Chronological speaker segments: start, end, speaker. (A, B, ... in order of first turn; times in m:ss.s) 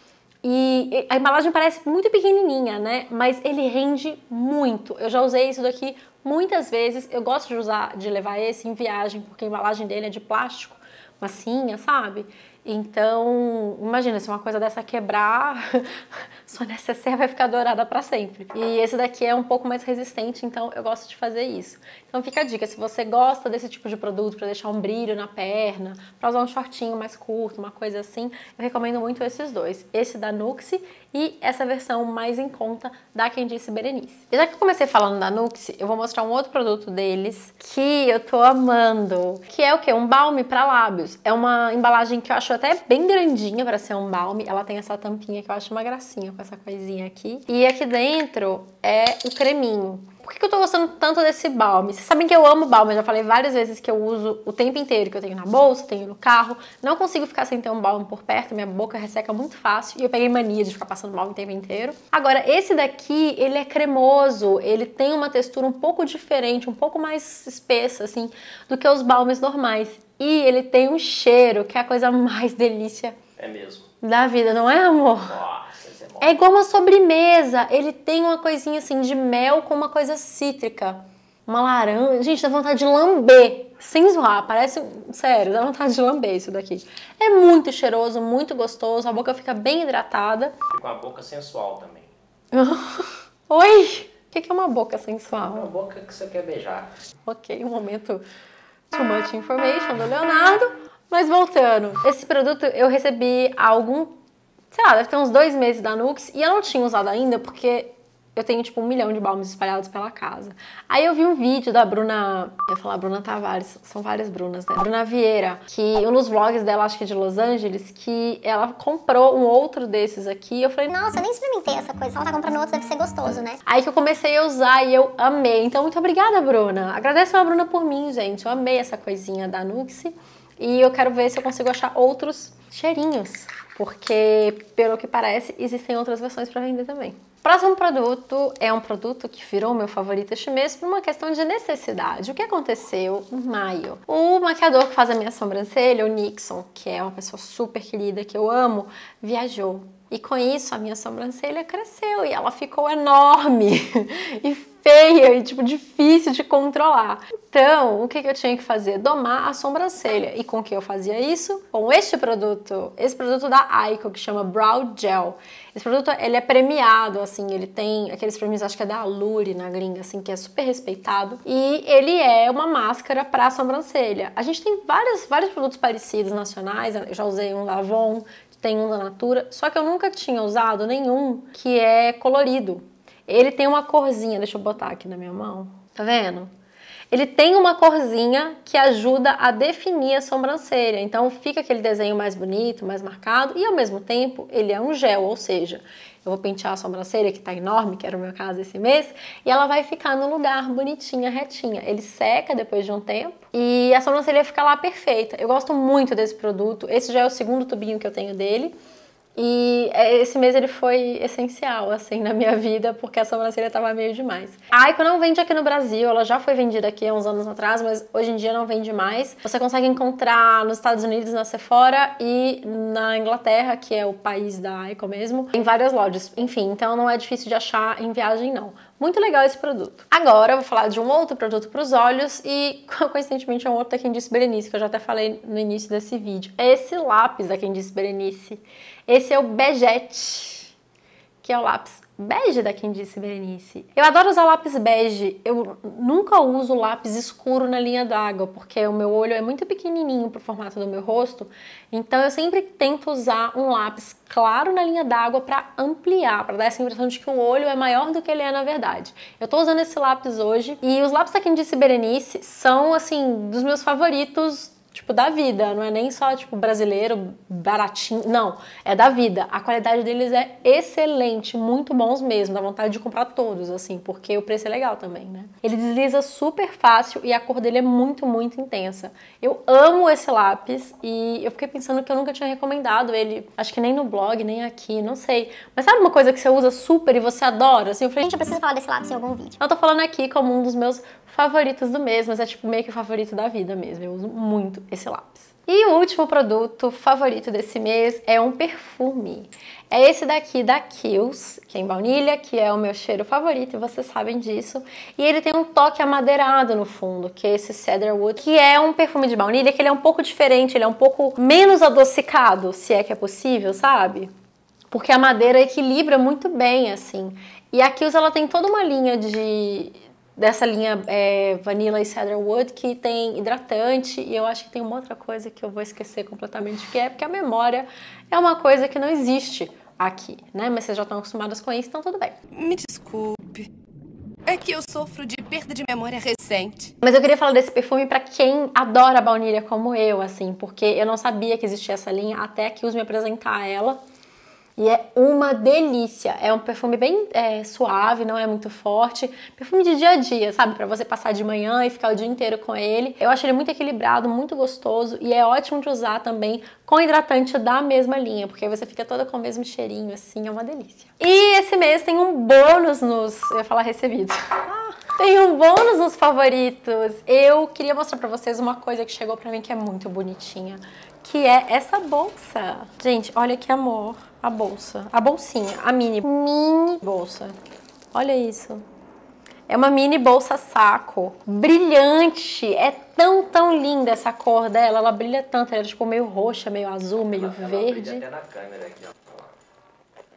0:00.4-1:13.2 A
1:13.4-1:13.9 B
1:14.0-1:15.4 A
1:15.3-1:16.4 B
1:16.2-1:30.6 A
1:30.7-1:32.1 B
1:32.5-1:35.7 A
1:35.5-1:36.9 B
1:37.2-1:38.2 A
1:38.9-1:44.1 A
1:44.7-2:01.0 A
2:00.9-2:03.6 C
2:03.6-3:06.5 A
3:07.1-3:28.7 A
3:29.4-4:00.7 A
4:01.4-4:48.3 A
4:48.2-4:49.6 C
4:49.6-5:14.3 A
5:14.9-5:32.4 A
5:32.5-5:33.7 D
5:34.5-5:36.9 D
5:37.0-5:44.0 A
5:44.8-6:17.6 A
6:18.1-6:18.8 A
6:19.7-6:28.2 A
6:27.2-6:29.5 B